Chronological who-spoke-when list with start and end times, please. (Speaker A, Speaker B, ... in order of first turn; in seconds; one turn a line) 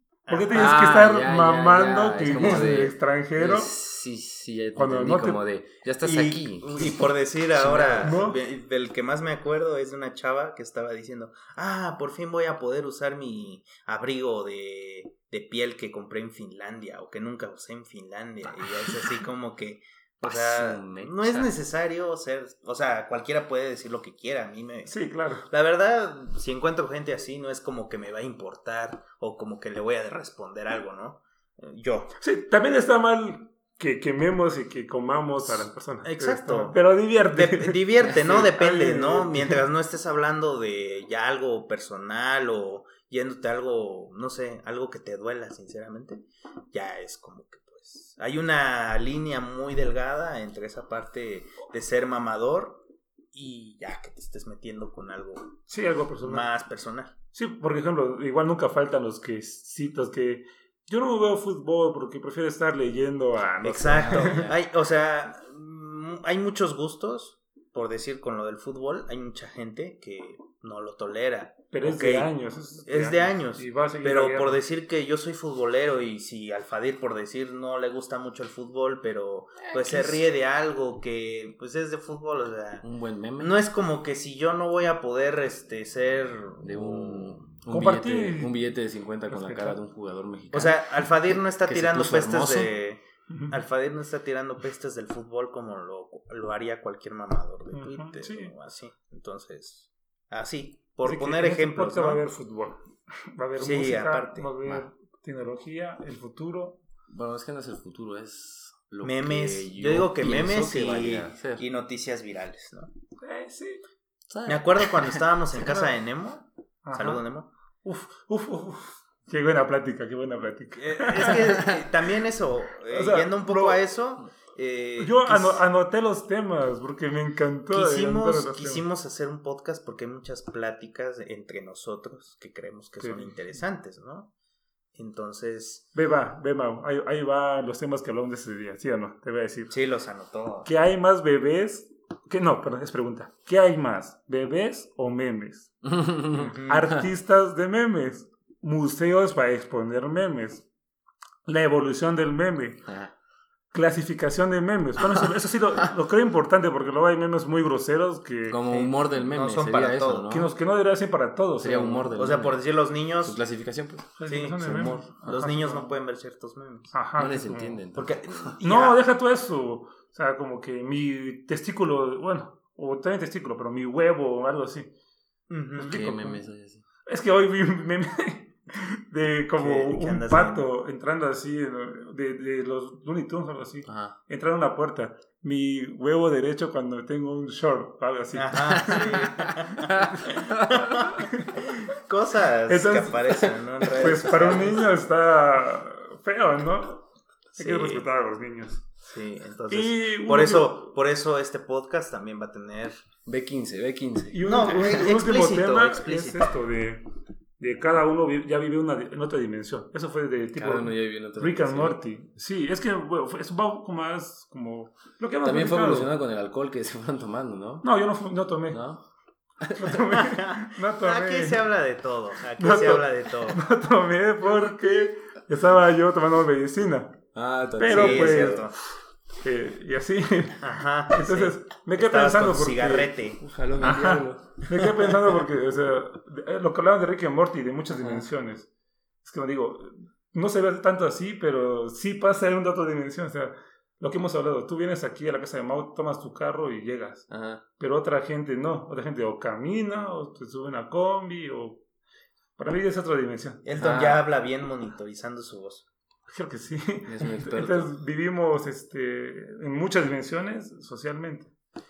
Speaker A: 0.3-0.8
Speaker B: 0.3-3.7
Speaker C: 0.5-7.0
Speaker A: 2.4-2.8
Speaker B: 4.8-5.4
Speaker A: 6.0-32.1
Speaker C: 7.5-8.2
Speaker B: 8.0-8.4
Speaker C: 18.6-19.0
Speaker C: 20.2-21.5
Speaker B: 24.9-25.4
Speaker B: 32.2-39.6
Speaker A: 35.4-55.6
Speaker B: 55.7-56.5
Speaker A: 56.2-57.1
Speaker B: 57.3-64.5
Speaker A: 63.6-72.3
Speaker C: 63.9-64.5
Speaker B: 71.7-74.6
Speaker A: 72.8-87.4
Speaker C: 79.6-80.2
Speaker C: 82.8-83.5
Speaker C: 86.6-92.7
Speaker B: 87.7-88.6
Speaker B: 89.3-89.8
Speaker A: 90.5-102.2
Speaker B: 93.3-93.6
Speaker B: 97.7-98.5
Speaker B: 101.0-106.8
Speaker A: 103.6-104.8
Speaker C: 107.1-111.6
Speaker A: 109.0-112.9
Speaker B: 113.2-113.8
Speaker C: 114.3-115.2
Speaker A: 114.5-117.5
Speaker B: 115.5-115.9
Speaker B: 116.8-117.2
Speaker B: 117.8-121.8
Speaker A: 120.8-125.6
Speaker B: 122.8-123.8
Speaker B: 125.0-128.8
Speaker A: 127.7-134.3
Speaker B: 133.0-133.5
Speaker A: 134.9-135.9
Speaker B: 135.9-139.7
Speaker A: 139.7-140.7
Speaker B: 140.6-145.9
Speaker C: 145.8-146.5
Speaker A: 146.3-146.9
Speaker B: 146.5-150.6
Speaker B: 151.4-152.9
Speaker C: 152.8-153.1
Speaker B: 153.7-158.6
Speaker C: 158.5-160.5
Speaker A: 158.7-160.3
Speaker B: 160.3-162.2
Speaker C: 161.6-162.6
Speaker A: 162.2-163.4
Speaker C: 163.2-165.0
Speaker B: 164.2-165.9
Speaker A: 164.3-166.9
Speaker B: 166.9-167.8
Speaker C: 167.2-168.5
Speaker A: 167.9-169.0
Speaker B: 168.6-174.9
Speaker A: 175.5-176.0
Speaker B: 175.8-176.4
Speaker C: 175.8-176.8
Speaker B: 177.0-189.3
Speaker A: 179.6-180.7
Speaker C: 183.8-184.2
Speaker A: 188.3-194.9
Speaker C: 188.9-190.1
Speaker B: 190.0-191.9
Speaker B: 192.7-198.9
Speaker A: 197.6-198.1
Speaker A: 199.0-203.0
Speaker B: 199.7-200.9
Speaker C: 203.2-204.4
Speaker B: 204.3-207.1
Speaker A: 204.4-206.5
Speaker B: 207.6-216.1
Speaker C: 210.5-212.0
Speaker C: 215.4-217.9
Speaker B: 217.8-218.8
Speaker C: 218.7-219.0
Speaker C: 219.6-220.0
Speaker B: 219.8-221.7
Speaker A: 220.2-223.6
Speaker B: 222.6-227.2
Speaker C: 227.3-228.6
Speaker B: 227.8-228.7
Speaker A: 227.9-228.8
Speaker B: 229.4-233.1
Speaker A: 230.6-233.4
Speaker C: 233.4-234.7
Speaker B: 233.8-238.7
Speaker C: 237.9-238.3
Speaker B: 239.2-251.8
Speaker C: 247.3-247.6
Speaker B: 252.6-253.6
Speaker A: 253.6-255.9
Speaker C: 253.8-254.2
Speaker B: 256.3-261.5
Speaker C: 257.1-257.9